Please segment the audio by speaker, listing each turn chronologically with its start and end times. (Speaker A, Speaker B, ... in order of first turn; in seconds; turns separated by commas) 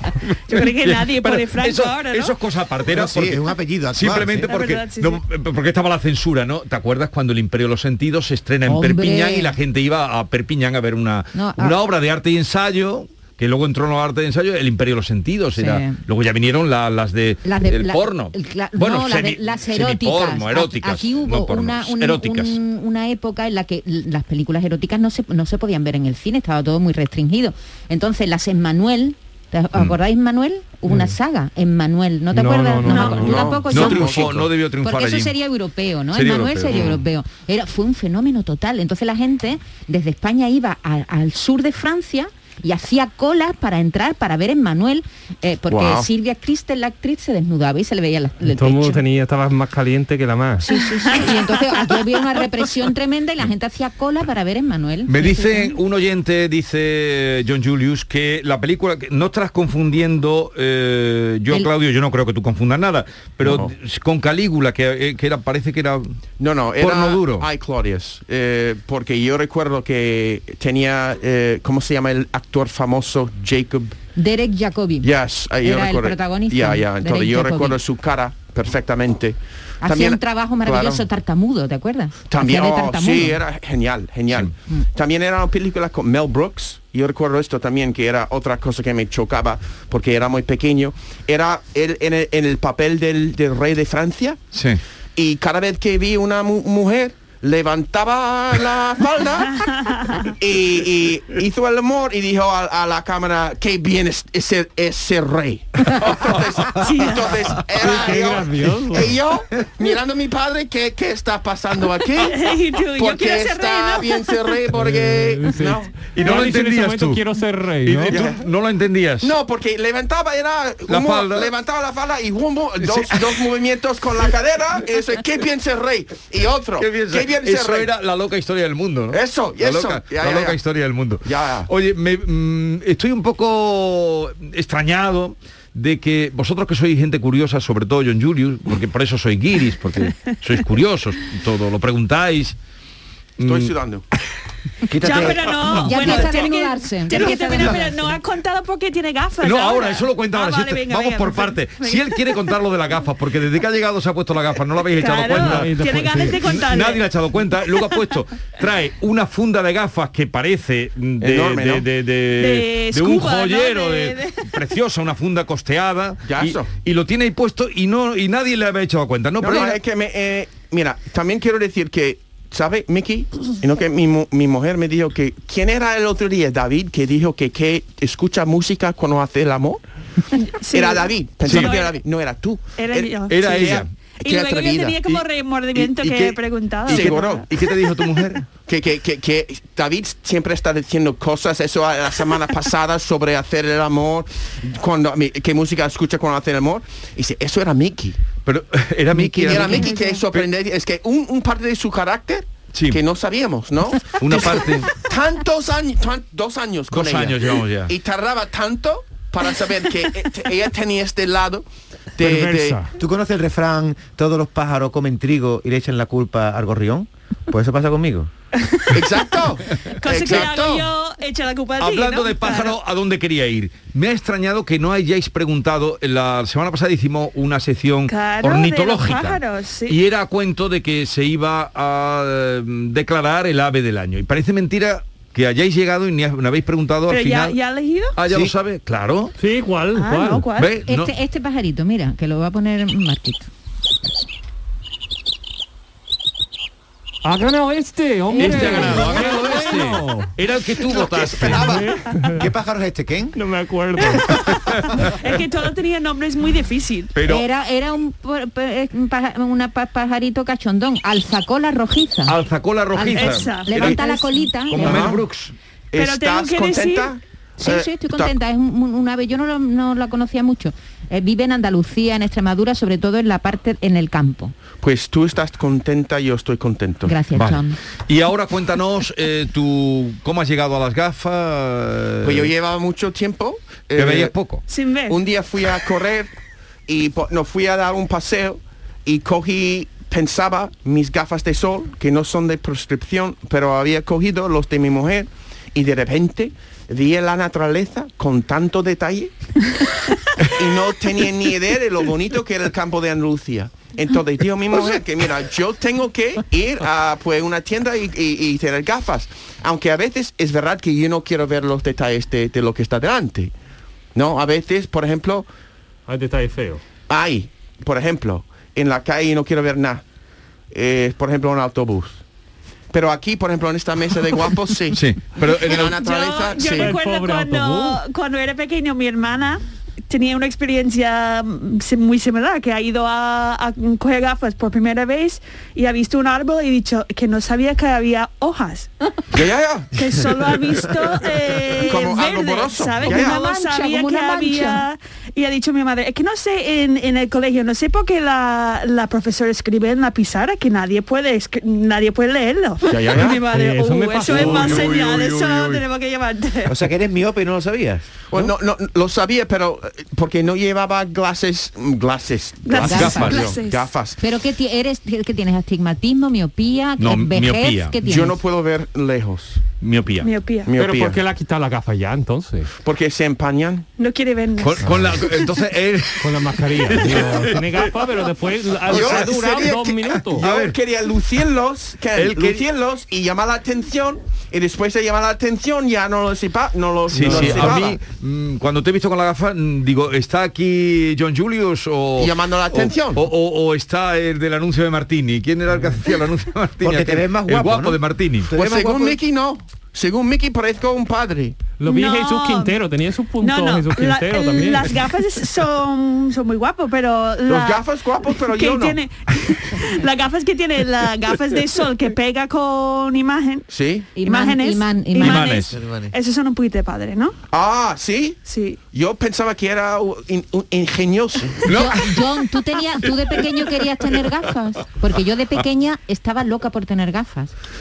Speaker A: 0.2-22.6, Speaker B: 0.5-2.3, Speaker C: 2.9-4.6, Speaker B: 4.5-5.2, Speaker D: 8.7-9.6, Speaker D: 11.3-11.8, Speaker D: 15.6-16.0, Speaker D: 17.4-49.0, Speaker E: 30.9-31.1, Speaker E: 32.3-33.6, Speaker F: 32.9-34.5, Speaker A: 33.6-35.3, Speaker A: 36.1-37.0, Speaker F: 45.7-46.1, Speaker E: 48.5-50.7, Speaker D: 50.6-55.8, Speaker A: 55.1-66.1, Speaker F: 63.4-63.7, Speaker F: 66.4-74.0, Speaker A: 66.8-67.5, Speaker D: 74.2-75.1, Speaker F: 75.0-81.0, Speaker D: 75.6-77.8, Speaker D: 79.8-83.4, Speaker F: 82.3-94.4, Speaker A: 94.5-94.8, Speaker F: 95.2-99.7, Speaker B: 99.5-100.3, Speaker F: 100.3-116.0, Speaker B: 106.8-107.5, Speaker E: 107.8-109.2, Speaker B: 112.3-114.5, Speaker E: 114.7-118.2, Speaker A: 116.1-117.2, Speaker A: 117.8-119.3, Speaker F: 118.1-118.5, Speaker F: 119.2-127.9, Speaker A: 120.9-121.5, Speaker A: 122.8-123.2, Speaker A: 126.8-142.6, Speaker F: 129.1-130.6, Speaker F: 131.2-131.7, Speaker A: 143.4-143.7, Speaker F: 143.4-144.0, Speaker C: 144.9-146.2, Speaker B: 145.0-152.4, Speaker A: 145.6-146.1, Speaker D: 145.8-148.1, Speaker A: 149.4-169.8, Speaker B: 155.0-157.1, Speaker E: 155.4-156.4, Speaker F: 161.2-161.9, Speaker B: 162.4-164.5, Speaker F: 166.3-166.7, Speaker F: 169.4-179.8, Speaker B: 180.4-181.9, Speaker F: 180.7-185.0, Speaker A: 181.4-181.7, Speaker B: 182.8-183.4, Speaker A: 183.3-183.9, Speaker B: 184.2-187.5, Speaker A: 185.1-188.4, Speaker F: 186.9-187.5, Speaker F: 188.7-198.2, Speaker A: 198.4-200.5, Speaker D: 199.1-200.3, Speaker F: 199.4-212.8, Speaker A: 202.7-203.0, Speaker A: 204.2-204.9, Speaker A: 206.9-207.9, Speaker E: 212.2-212.9, Speaker C: 213.0-218.3, Speaker B: 218.6-219.5, Speaker F: 218.9-220.9, Speaker B: 220.0-222.8, Speaker A: 221.8-237.6, Speaker B: 228.1-230.0, Speaker B: 237.1-238.1, Speaker A: 238.2-239.3, Speaker E: 239.4-240.5, Speaker B: 240.0-240.7, Speaker A: 240.6-241.1, Speaker D: 240.8-243.5, Speaker E: 247.2-250.3, Speaker D: 248.3-249.5, Speaker A: 248.4-251.7, Speaker F: 250.8-251.8, Speaker E: 251.5-252.4, Speaker C: 251.6-253.4, Speaker E: 253.3-254.4, Speaker B: 254.1-257.1, Speaker A: 257.1-257.5, Speaker D: 257.2-262.4, Speaker A: 262.3-264.0, Speaker D: 262.9-265.3, Speaker B: 263.1-264.3, Speaker F: 263.8-264.0, Speaker A: 264.6-265.5, Speaker F: 264.8-265.2, Speaker F: 265.9-268.3, Speaker B: 265.9-267.1, Speaker D: 267.6-274.6, Speaker F: 274.8-277.2, Speaker D: 277.1-277.8, Speaker A: 277.3-282.5, Speaker F: 282.2-284.4, Speaker A: 284.0-284.6, Speaker B: 284.7-285.2, Speaker F: 285.1-286.3, Speaker F: 286.9-299.3, Speaker F: 300.4-313.5, Speaker F: 314.1-315.5, Speaker E: 316.1-316.8, Speaker F: 317.1-320.0, Speaker F: 320.7-322.2, Speaker F: 322.9-326.9, Speaker A: 324.9-326.1, Speaker B: 325.7-338.9, Speaker E: 326.8-328.0, Speaker F: 339.3-340.0, Speaker B: 339.9-356.8, Speaker F: 341.8-343.4, Speaker D: 343.1-344.8, Speaker F: 352.9-353.4, Speaker E: 353.2-354.9, Speaker A: 354.3-355.8, Speaker C: 356.7-358.1, Speaker F: 358.3-364.2, Speaker B: 362.6-363.9, Speaker A: 362.8-363.5, Speaker D: 362.8-363.5, Speaker D: 364.2-368.4, Speaker A: 367.0-368.0, Speaker F: 368.0-369.6, Speaker A: 369.8-370.3, Speaker B: 370.2-370.7, Speaker F: 370.7-371.2, Speaker E: 370.8-372.7, Speaker F: 372.8-373.9, Speaker B: 374.0-375.5, Speaker A: 374.6-377.9, Speaker E: 376.2-380.5, Speaker A: 378.9-379.3, Speaker F: 378.9-388.0, Speaker A: 380.3-380.8, Speaker A: 382.1-382.7, Speaker A: 387.1-398.5, Speaker E: 387.2-387.7, Speaker F: 392.2-393.2, Speaker C: 396.8-399.2, Speaker F: 398.5-401.6, Speaker E: 401.8-405.0, Speaker B: 401.9-402.8, Speaker B: 403.4-417.3, Speaker F: 407.5-409.0, Speaker F: 413.7-414.1, Speaker D: 414.2-415.6, Speaker A: 415.2-415.8, Speaker C: 415.7-416.1, Speaker F: 417.5-418.4, Speaker B: 418.5-418.8, Speaker F: 418.9-421.6, Speaker A: 421.6-422.3, Speaker D: 421.7-427.5, Speaker A: 423.0-424.3